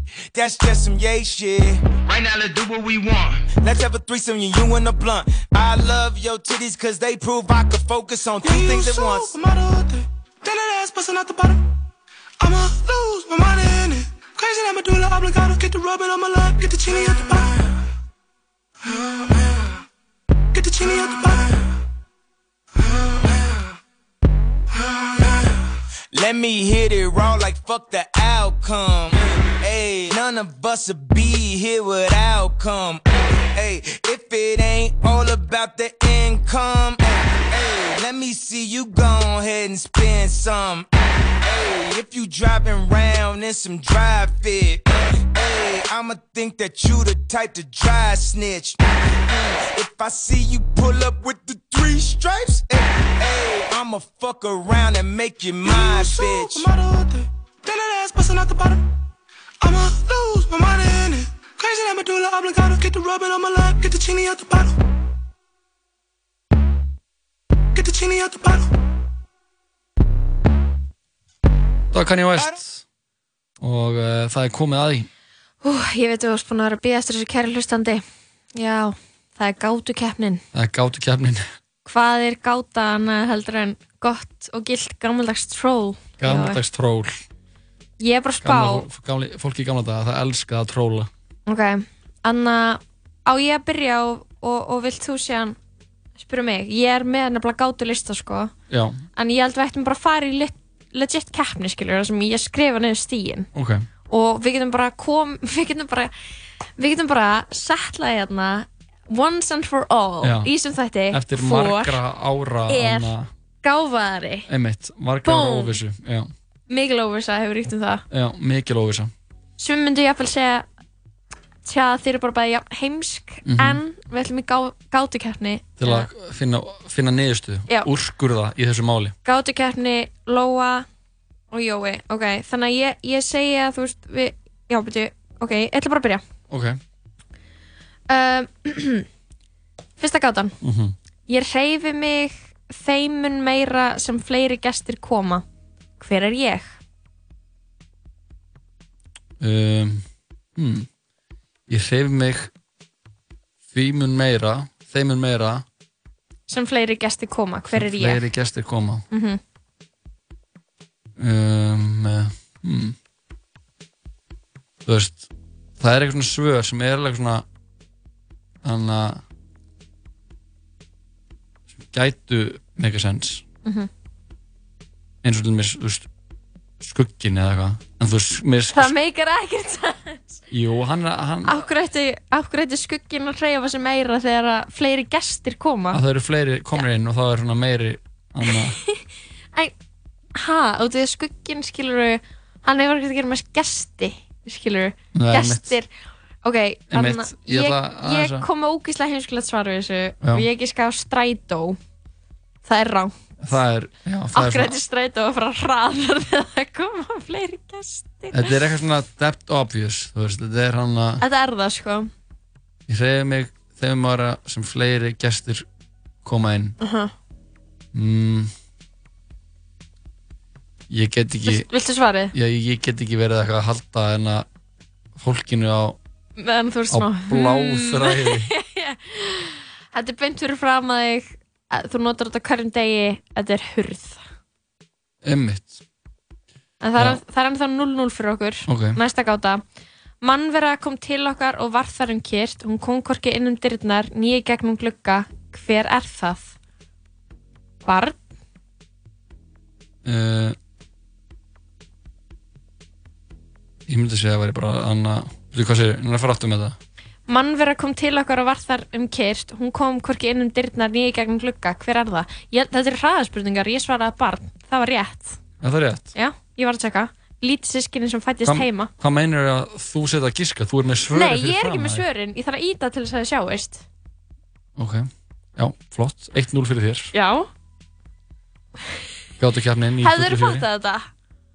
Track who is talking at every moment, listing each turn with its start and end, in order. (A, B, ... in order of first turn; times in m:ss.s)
0:00.3-0:09.2 A
0:08.4-0:11.6 B
0:12.4-0:17.6 B
0:20.5-0:21.5 B
0:26.1-0:33.0 A
0:33.6-0:37.0 A
0:37.5-0:40.8 A
0:41.5-0:44.8 A
0:45.4-0:48.7 A
0:49.3-0:56.6 A
0:55.6-0:58.8 B
0:59.6-1:04.8 B
1:07.8-1:08.6 B
1:11.9-1:12.8 C
1:13.6-1:15.1 C
1:15.6-1:18.0 D
1:18.5-1:20.4 D
1:20.5-1:21.5 C
1:21.8-1:26.6 D
1:26.2-1:27.2 C
1:28.0-1:28.9 D
1:28.4-1:31.1 C
1:31.5-1:35.6 D
1:36.2-1:38.5 D
1:38.7-1:39.0 C
1:39.2-1:43.5 D
1:43.5-1:43.8 C
1:44.1-1:46.1 D
1:46.8-1:52.0 D
1:50.2-1:50.5 C
1:51.1-1:53.3 C
1:52.7-1:54.5 D
1:54.5-1:56.3 C
1:55.2-1:55.8 D
1:56.7-1:58.0 D
1:58.1-1:59.1 C
1:59.6-2:00.7 D
2:01.6-2:06.1 D
2:03.4-2:03.8 C
2:05.8-2:09.1 C
2:09.2-2:10.9 D
2:11.5-2:16.2 D
2:16.5-2:16.8 C
2:18.1-2:19.0 D
2:20.0-2:20.6 D
2:20.6-2:20.9 C
2:21.3-2:25.4 D
2:26.0-2:26.8 D
2:29.4-2:30.9 C
2:31.7-2:32.5 C
2:33.7-2:35.6 C
2:36.5-2:38.2 D
2:37.7-2:39.0 C
2:39.1-2:39.4 D
2:41.2-2:43.0 C
2:44.8-2:45.3 C
2:45.8-2:47.4 C
2:48.6-2:49.2 C
2:51.8-2:53.4 C
2:55.2-2:56.1 C
2:56.8-2:58.9 C
2:58.7-3:00.4 D
3:00.5-3:01.6 C
3:01.4-3:06.0 D
3:05.9-3:08.8 C
3:10.3-3:15.9 D
3:15.1-3:15.8 C
3:16.4-3:21.8 D
3:16.9-3:18.5 C
3:22.6-3:23.1 D
3:23.4-3:24.8 C
3:24.3-3:28.5 D
3:28.3-3:31.2 C
3:31.2-3:32.1 D
3:32.9-3:35.6 C
3:36.2-3:36.8 C
3:36.8-3:37.1 D
3:37.9-3:38.5 C
3:40.9-3:41.7 C
3:41.4-3:42.3 D
3:42.3-3:44.4 C
3:45.2-3:46.0 C
3:46.4-3:54.2 D
3:46.9-3:48.5 C
3:55.2-3:55.8 C
3:56.8-3:59.6 D
3:58.7-3:59.0 C
4:00.2-4:06.5 D
4:07.8-4:08.2 D
4:10.0-4:10.6 C
4:13.9-4:16.8 C
4:17.3-4:25.4 D
4:25.6-4:26.1 C
4:26.1-4:28.9 D
4:28.4-4:32.0 C
4:31.1-4:33.8 D
4:34.8-4:37.1 C
4:37.1-4:37.5 D
4:39.4-4:40.6 C
4:40.0-4:41.1 D